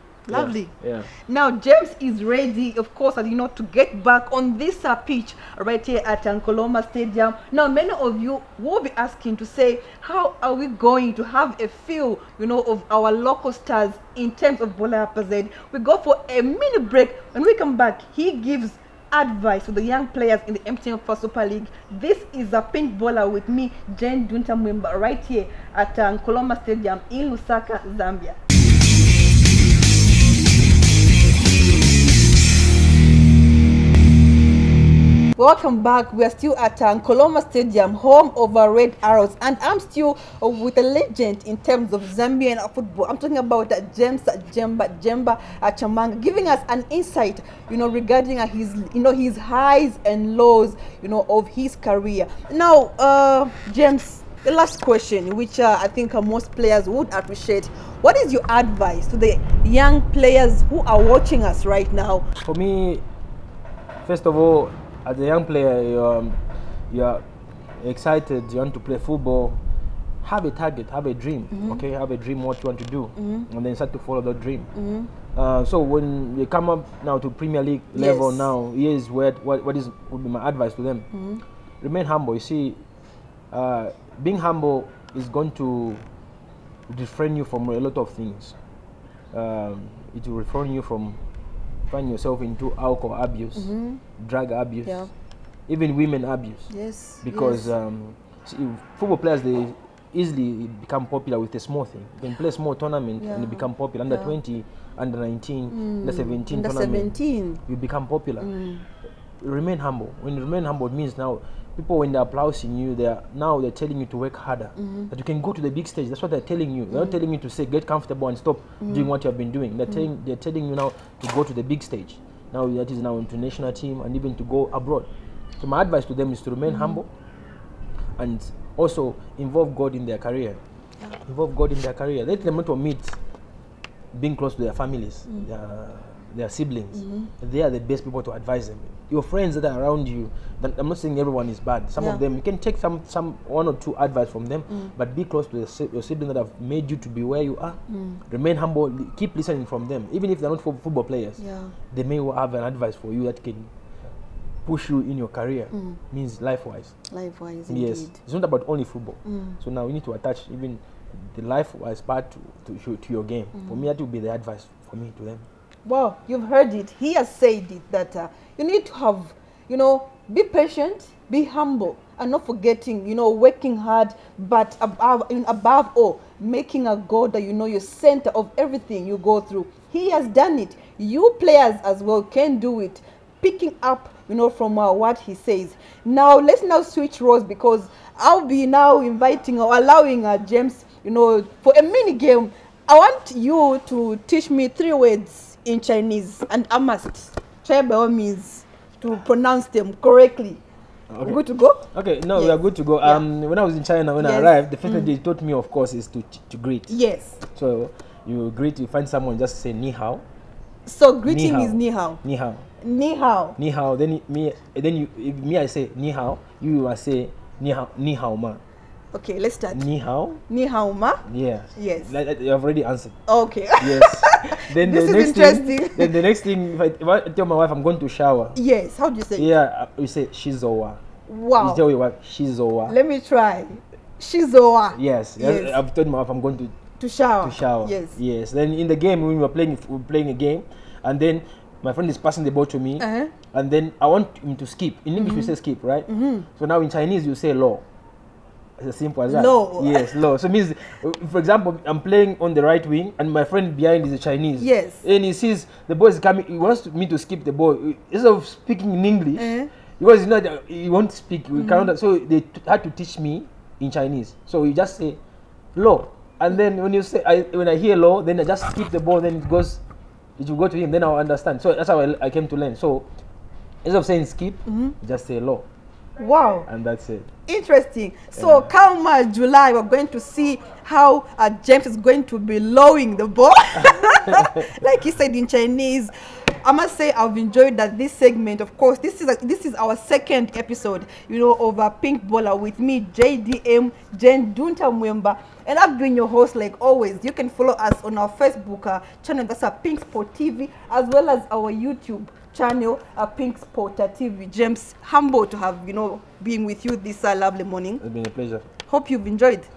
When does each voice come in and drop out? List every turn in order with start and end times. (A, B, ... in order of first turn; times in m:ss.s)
0:00.3-0:28.4 A
0:00.3-0:01.1 B
0:35.4-1:02.3 A
1:02.4-1:03.0 B
1:04.0-1:07.2 B
1:07.8-1:09.6 B
1:10.2-1:14.7 B
1:11.5-1:11.8 A
1:13.2-1:13.5 A
1:14.7-1:15.1 A
1:15.3-1:21.1 B
1:17.9-1:18.5 A
1:21.1-1:21.4 A
1:21.8-1:22.8 B
1:23.5-1:26.0 B
1:26.9-1:28.6 B
1:29.3-1:31.2 B
1:31.9-1:35.1 B
1:33.6-1:34.0 A
1:34.8-1:35.1 A
1:35.7-1:36.7 B
1:36.7-1:37.7 A
1:37.2-1:47.2 B
1:43.2-1:44.3 A
1:45.7-1:47.6 A
1:47.7-1:48.5 B
1:48.4-1:48.8 A
1:49.4-2:05.1 B
1:54.8-1:55.1 A
1:56.9-1:57.2 A
1:58.8-1:59.1 A
2:05.6-2:07.1 B
2:06.7-2:07.0 A
2:08.2-2:10.6 B
2:11.2-2:13.2 B
2:14.1-2:27.8 B
2:16.9-2:17.3 A
2:22.0-2:22.2 A
2:27.9-2:28.2 A
2:28.3-2:31.4 B
2:31.4-2:31.8 A
2:31.9-2:33.7 B
2:34.6-2:36.9 B
2:35.7-2:36.0 A
2:37.1-2:38.2 A
2:37.7-2:45.5 B
2:39.2-2:39.6 A
2:43.5-2:43.9 A
2:45.9-3:20.6 A
3:21.1-3:21.4 B
3:21.2-3:23.2 A
3:21.9-3:26.9 B
3:24.2-3:25.1 A
3:26.9-3:27.4 A
3:27.6-3:30.2 B
3:30.9-3:32.2 A
3:31.3-3:32.7 B
3:32.8-3:33.6 A
3:33.6-3:38.6 B
3:39.1-3:39.9 A
3:39.7-3:40.4 B
3:40.5-3:41.2 A
3:41.3-3:43.2 B
3:41.8-3:42.1 A
3:43.3-3:46.2 A
3:43.8-3:48.6 B
3:48.6-3:49.6 A
3:49.4-3:51.0 B
3:51.3-3:51.8 A
3:51.6-3:53.0 B
3:52.9-3:55.8 A
3:54.9-3:56.8 B
3:57.0-3:58.2 A
3:57.4-4:07.8 B
4:03.0-4:03.3 A
4:05.2-4:05.5 A
4:06.1-4:06.5 A
4:08.8-4:19.5 B
4:09.3-4:10.2 A
4:14.6-4:15.0 A
4:19.4-4:19.7 A
4:20.0-4:25.2 B
4:21.6-4:21.9 A
4:25.8-4:29.8 B
4:30.4-4:33.1 B
4:33.8-4:35.6 B
4:34.6-4:35.0 A
4:36.2-4:36.7 A
4:36.7-4:37.3 B
4:37.5-5:08.0 A
4:38.4-4:38.7 B
4:43.8-4:44.7 B
5:08.0-5:08.6 B
5:08.8-5:09.7 A